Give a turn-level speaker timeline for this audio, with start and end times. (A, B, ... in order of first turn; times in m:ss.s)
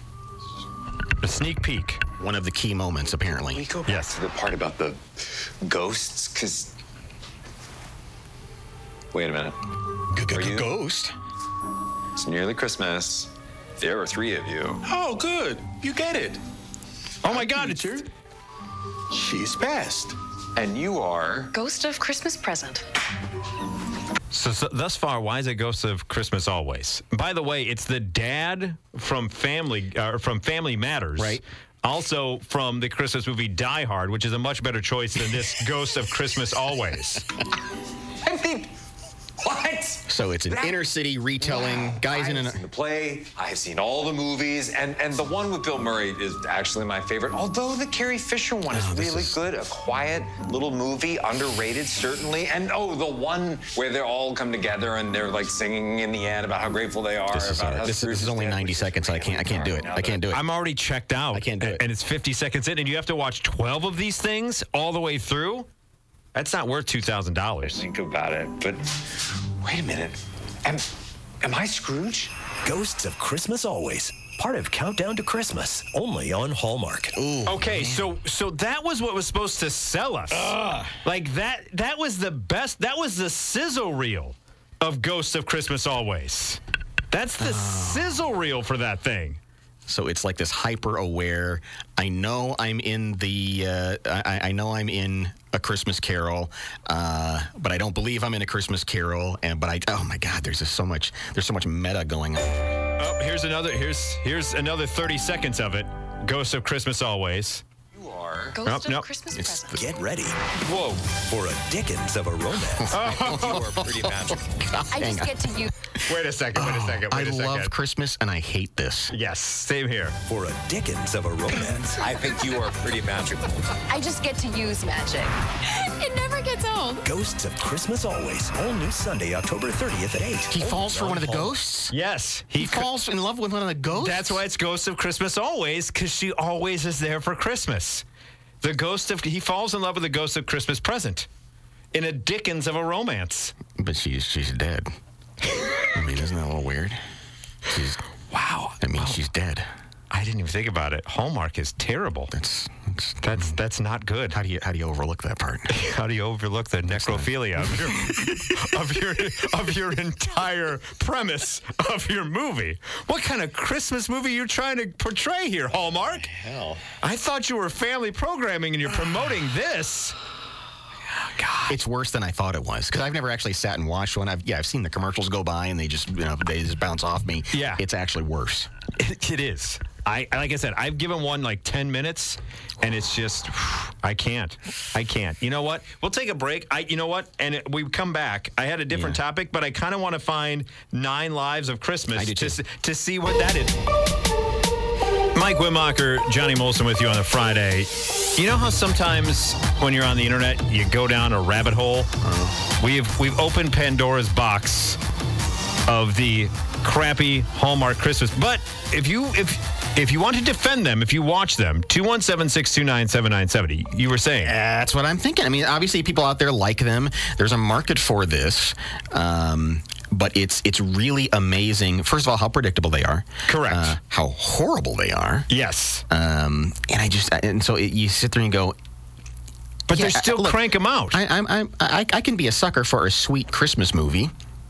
0:01.2-0:02.0 A
0:02.2-0:03.6 B
0:03.5-0:05.0 C
0:03.9-0:04.2 A
0:05.6-0:06.7 C
0:09.1-0:09.6 C
0:10.1-0:11.1 B
0:10.3-0:10.7 C
0:12.2-0:14.8 C
0:14.8-0:16.4 D
0:17.2-0:18.0 A
0:17.3-0:18.1 D
0:19.1-0:20.2 D
0:20.6-0:21.5 C
0:21.5-0:22.8 E
0:24.3-0:37.2 A
0:31.2-0:31.4 B
0:38.2-0:38.7 C
0:39.4-0:40.7 C
0:40.1-0:42.6 B
0:41.4-1:00.3 C
0:48.7-0:49.4 B
0:57.3-1:00.4 B
1:00.3-1:05.7 A
1:01.3-1:01.8 B
1:06.4-1:07.8 A
1:07.6-1:08.8 C
1:09.6-1:10.9 C
1:11.4-1:12.3 C
1:12.6-1:17.2 F
1:17.2-1:18.1 B
1:17.5-1:26.6 A
1:27.1-1:29.4 A
1:27.4-1:28.2 B
1:29.9-1:42.6 B
1:43.0-1:47.6 A
1:48.0-1:48.6 C
1:48.5-1:49.8 E
1:48.6-1:49.1 A
1:49.3-1:49.7 B
1:49.7-1:50.4 F
1:50.7-1:51.0 A
1:51.1-1:53.0 F
1:52.7-1:55.4 B
1:52.9-1:53.6 A
1:52.9-1:54.5 C
1:54.9-1:55.7 E
1:56.0-1:57.7 A
1:56.6-1:59.1 B
1:59.1-2:00.2 A
2:00.3-2:02.0 F
2:02.0-2:03.5 C
2:03.9-2:07.1 E
2:07.0-2:11.6 F
2:10.5-2:12.0 B
2:11.9-2:12.9 A
2:12.6-2:14.4 B
2:14.0-2:18.0 A
2:18.6-2:21.3 A
2:21.9-2:23.6 A
2:23.7-2:24.9 B
2:25.9-2:27.0 B
2:27.7-2:28.0 B
2:28.3-2:29.2 A
2:28.8-2:29.7 B
2:30.1-2:32.3 A
2:32.3-2:33.6 B
2:33.2-2:34.4 A
2:34.3-2:35.7 B
2:35.7-2:46.3 A
2:36.9-2:37.8 B
2:47.0-2:50.2 A
2:51.2-2:51.8 A
2:51.7-2:58.7 B
2:57.5-2:57.8 A
2:59.0-3:13.8 A
3:08.9-3:09.2 B
3:12.2-3:12.6 B
3:15.3-3:22.1 A
3:22.2-3:22.6 B
3:22.8-3:25.0 A
3:25.9-3:34.6 A
3:34.4-3:45.5 B
3:43.5-3:44.0 A
3:45.5-3:46.0 A
3:46.1-3:48.8 B
3:49.9-3:51.2 A
3:49.9-3:54.3 B